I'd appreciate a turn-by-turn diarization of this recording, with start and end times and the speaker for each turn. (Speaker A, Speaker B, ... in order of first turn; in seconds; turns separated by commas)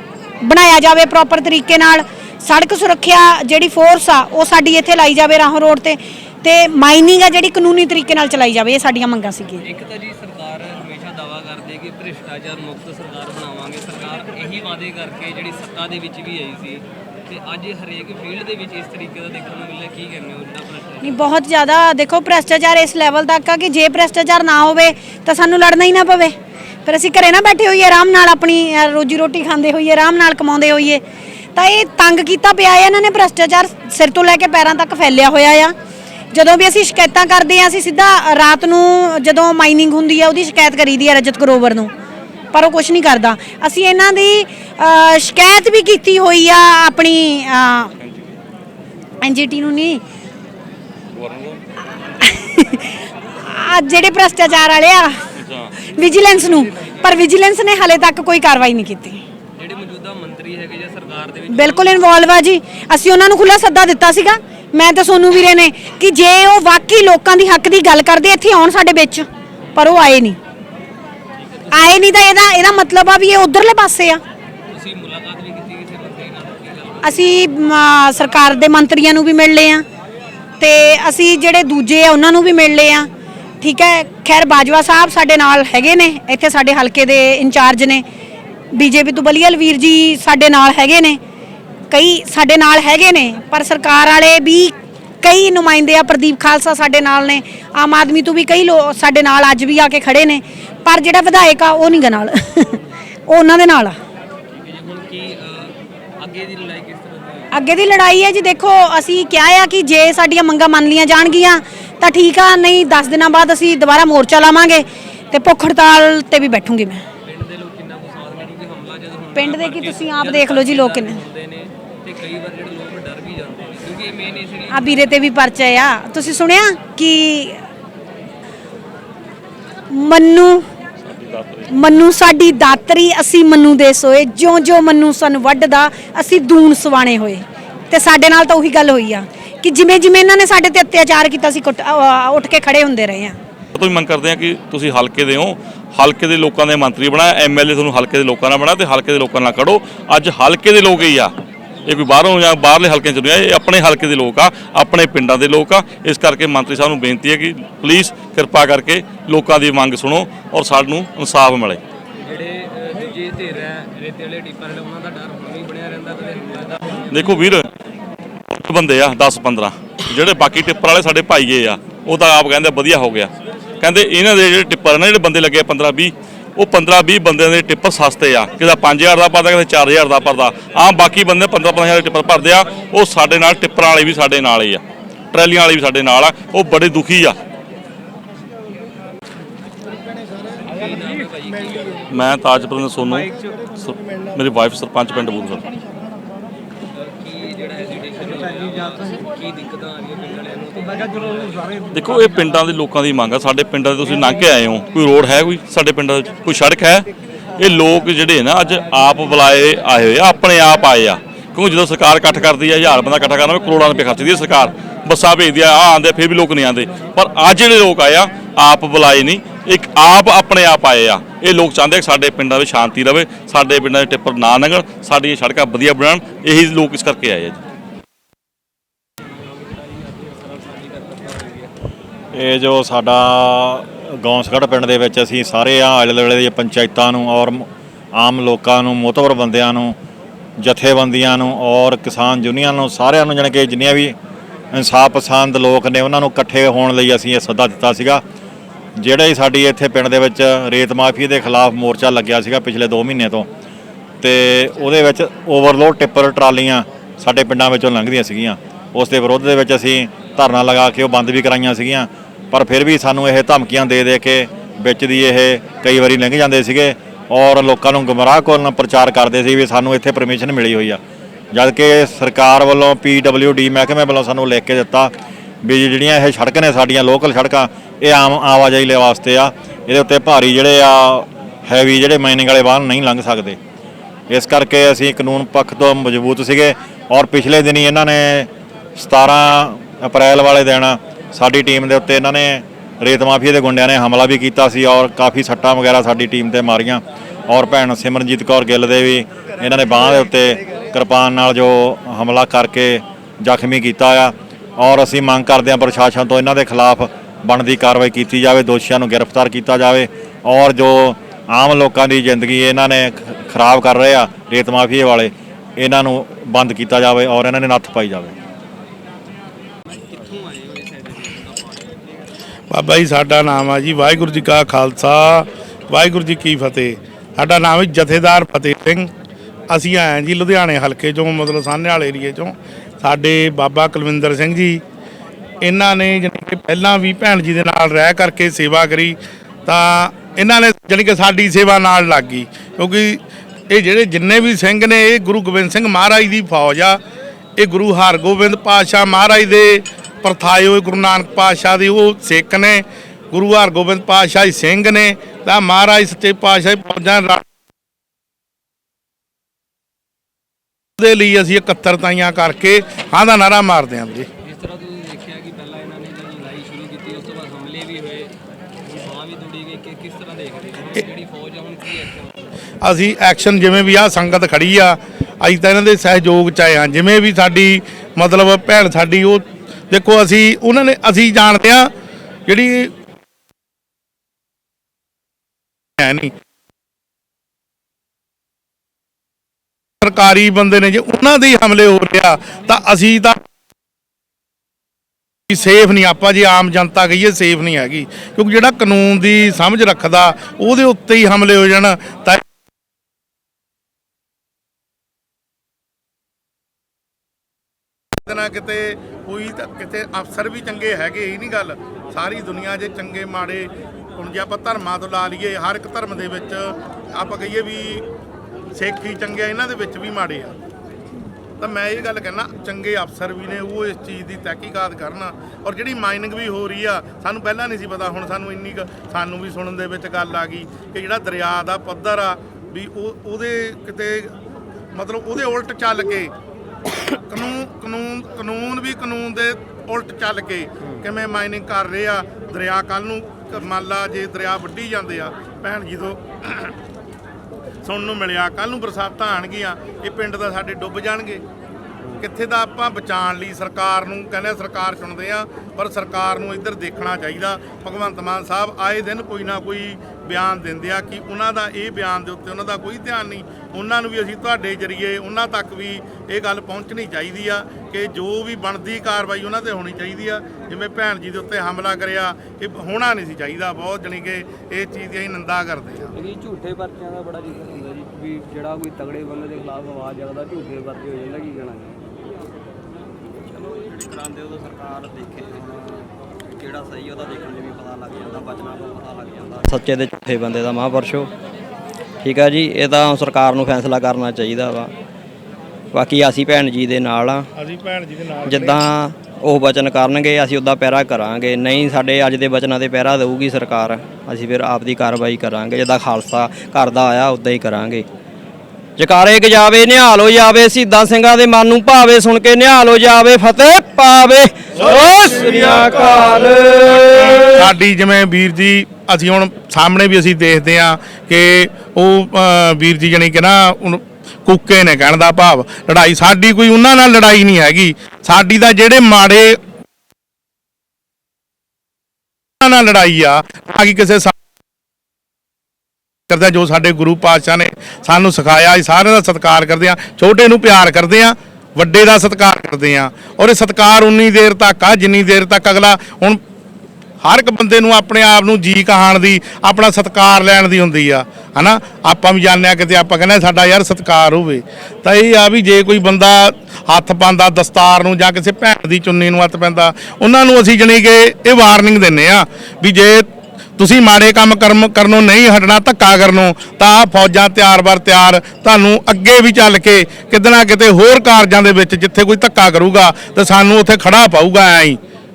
Speaker A: 0.4-9.6, Speaker B: 9.6-21.2, Speaker A: 21.0-26.3, Speaker A: 26.8-31.0, Speaker A: 31.6-35.7, Speaker A: 36.3-41.9, Speaker A: 42.5-47.9, Speaker A: 49.2-50.0, Speaker C: 51.2-51.6, Speaker A: 52.2-55.2, Speaker C: 55.4-55.7, Speaker A: 55.8-59.2, Speaker B: 59.6-62.1, Speaker A: 61.5-70.4, Speaker B: 71.4-72.3, Speaker A: 71.7-74.2, Speaker B: 74.7-77.4, Speaker A: 77.0-79.8, Speaker A: 80.6-83.1, Speaker A: 83.6-88.0, Speaker A: 88.7-91.2, Speaker A: 91.9-104.0, Speaker B: 104.6-107.5, Speaker A: 107.5-117.0, Speaker B: 117.2-125.2, Speaker A: 119.3-121.2, Speaker A: 124.7-127.6, Speaker A: 129.9-130.7, Speaker C: 131.0-131.7, Speaker A: 131.7-143.4, Speaker C: 143.8-151.3, Speaker C: 151.9-161.8, Speaker B: 162.2-167.5, Speaker C: 167.1-167.7, Speaker C: 168.5-187.4, Speaker B: 190.7-192.1, Speaker C: 192.1-195.7, Speaker B: 196.9-201.7, Speaker C: 201.9-207.1, Speaker C: 207.6-227.6, Speaker B: 229.3-231.7, Speaker D: 232.3-240.0, Speaker D: 240.6-244.2, Speaker D: 244.7-248.2, Speaker D: 249.0-253.5, Speaker D: 254.2-271.0, Speaker D: 271.5-275.1, Speaker D: 275.6-283.6, Speaker D: 284.3-318.3, Speaker B: 319.9-322.0, Speaker E: 322.7-329.1, Speaker E: 329.7-334.8, Speaker E: 335.6-347.0, Speaker E: 347.6-357.4, Speaker E: 361.0-364.3, Speaker B: 364.4-368.3, Speaker B: 368.9-372.4, Speaker E: 372.8-381.9, Speaker E: 382.5-382.9, Speaker E: 386.0-386.3, Speaker E: 390.0-393.4, Speaker E: 395.5-402.4, Speaker E: 408.2-418.1, Speaker E: 418.7-420.5, Speaker E: 421.6-434.3, Speaker E: 434.9-436.3, Speaker E: 437.2-446.7, Speaker E: 447.8-451.4, Speaker E: 452.2-476.1, Speaker B: 476.1-482.0, Speaker F: 483.6-486.0, Speaker B: 484.6-485.6, Speaker B: 486.6-489.6, Speaker F: 486.8-491.3, Speaker F: 492.2-494.9, Speaker F: 495.9-497.5, Speaker E: 497.5-498.8, Speaker F: 498.4-508.1, Speaker F: 509.0-517.7, Speaker E: 517.5-529.6, Speaker E: 532.6-534.3, Speaker E: 536.3-546.4, Speaker E: 547.2-563.3, Speaker E: 563.8-575.0